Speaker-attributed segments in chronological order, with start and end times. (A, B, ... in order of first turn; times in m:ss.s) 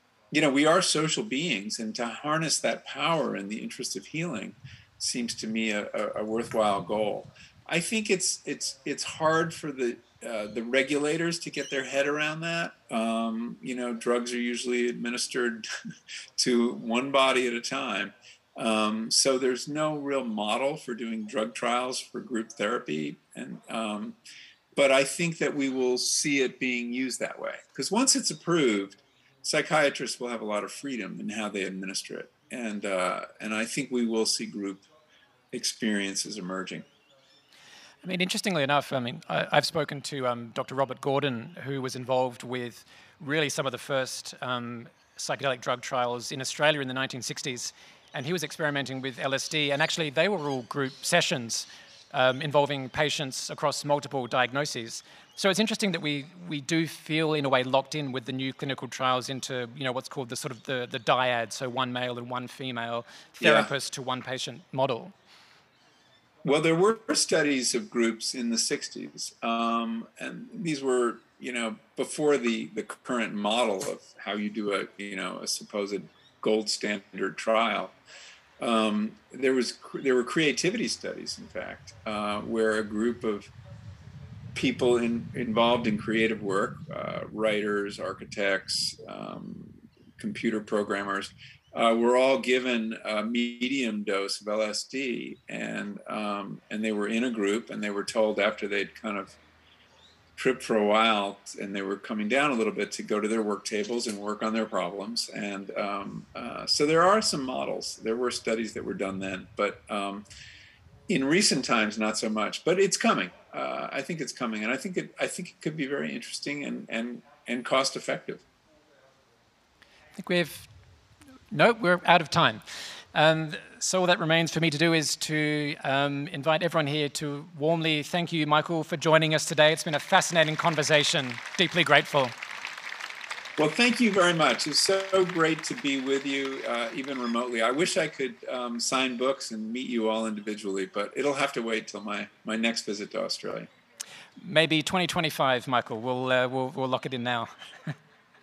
0:00.3-0:15.6 A
0:16.4-0:24.2 A
0:24.7-0:34.8 A
0:35.5-0:36.8 A
0:38.0-1:05.1 B
1:03.4-1:03.7 A
1:06.4-1:18.0 A
1:18.6-1:23.5 A
1:24.5-1:39.3 A
1:40.4-1:50.2 A
1:51.1-1:58.4 A
2:00.2-2:00.7 B
2:01.5-2:12.3 B
2:13.6-2:23.7 A
2:24.4-2:27.5 B